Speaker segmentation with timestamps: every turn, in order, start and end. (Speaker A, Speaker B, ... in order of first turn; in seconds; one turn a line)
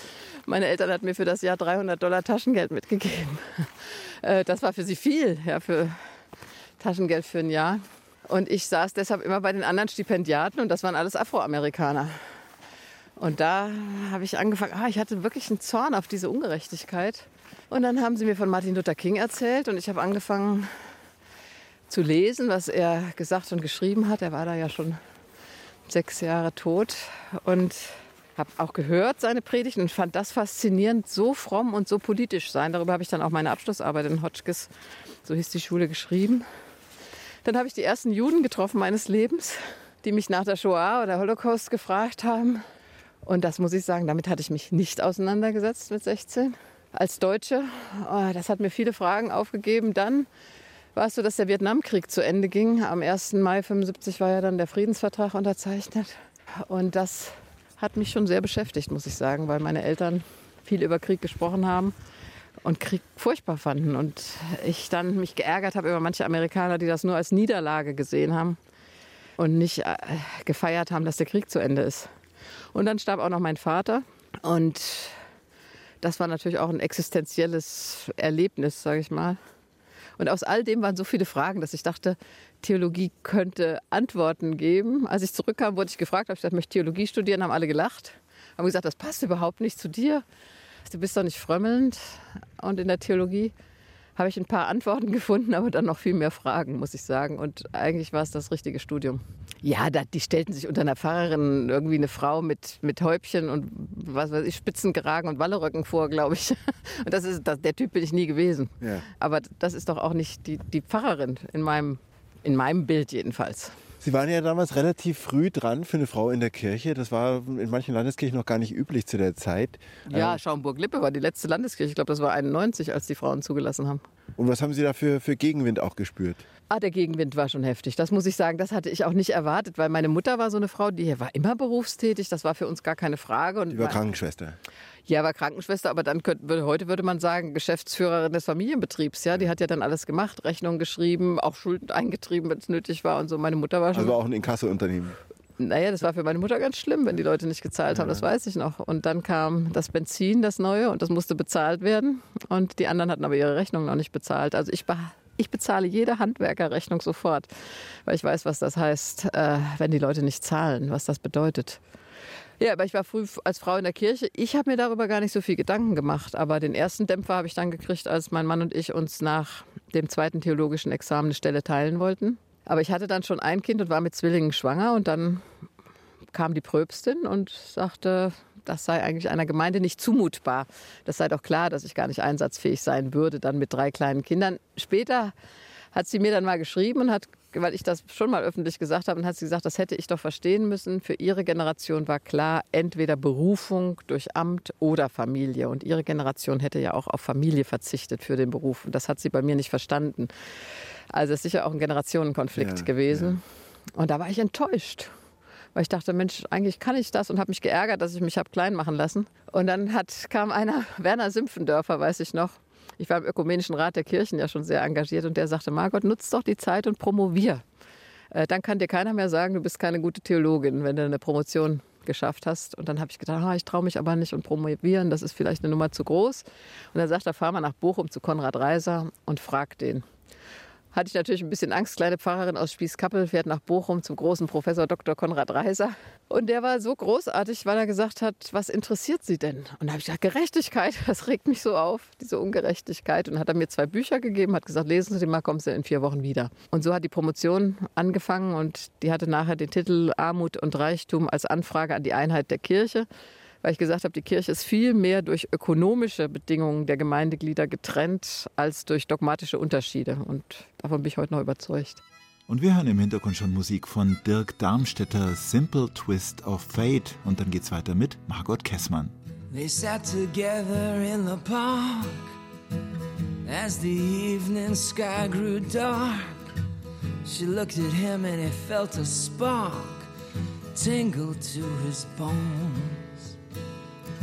Speaker A: 0.5-6.0
Speaker A: 6.8-12.2
Speaker A: 13.2-20.7
Speaker A: 21.9-25.0
Speaker A: 25.9-34.7
Speaker A: 35.2-36.5
Speaker A: 37.4-42.6
Speaker A: 43.2-50.3
Speaker A: 50.9-61.9
Speaker A: 62.6-68.6
Speaker A: 69.4-72.1
Speaker A: 72.7-75.2
Speaker A: 76.0-79.4
Speaker A: 80.2-90.2
Speaker A: 90.8-93.5
Speaker A: 94.2-113.7
Speaker B: 114.0-120.4
Speaker A: 120.1-124.0
Speaker B: 124.3-126.4
Speaker A: 126.7-134.0
Speaker B: 133.7-134.6
Speaker A: 135.1-144.2
Speaker B: 143.9-145.2
Speaker A: 145.6-157.5
Speaker B: 147.9-148.2
Speaker A: 158.0-161.8
Speaker A: 162.6-175.4
Speaker A: 176.3-185.3
Speaker A: 185.9-200.3
Speaker A: 201.1-203.4
Speaker B: 202.6-203.3
Speaker A: 203.9-205.1
Speaker A: 205.7-217.6
Speaker A: 218.3-230.0
Speaker A: 230.9-253.1
Speaker A: 253.6-262.0
Speaker C: 262.5-269.1
Speaker D: 269.5-272.3
Speaker D: 273.4-276.4
Speaker D: 277.2-280.1
Speaker D: 280.7-283.4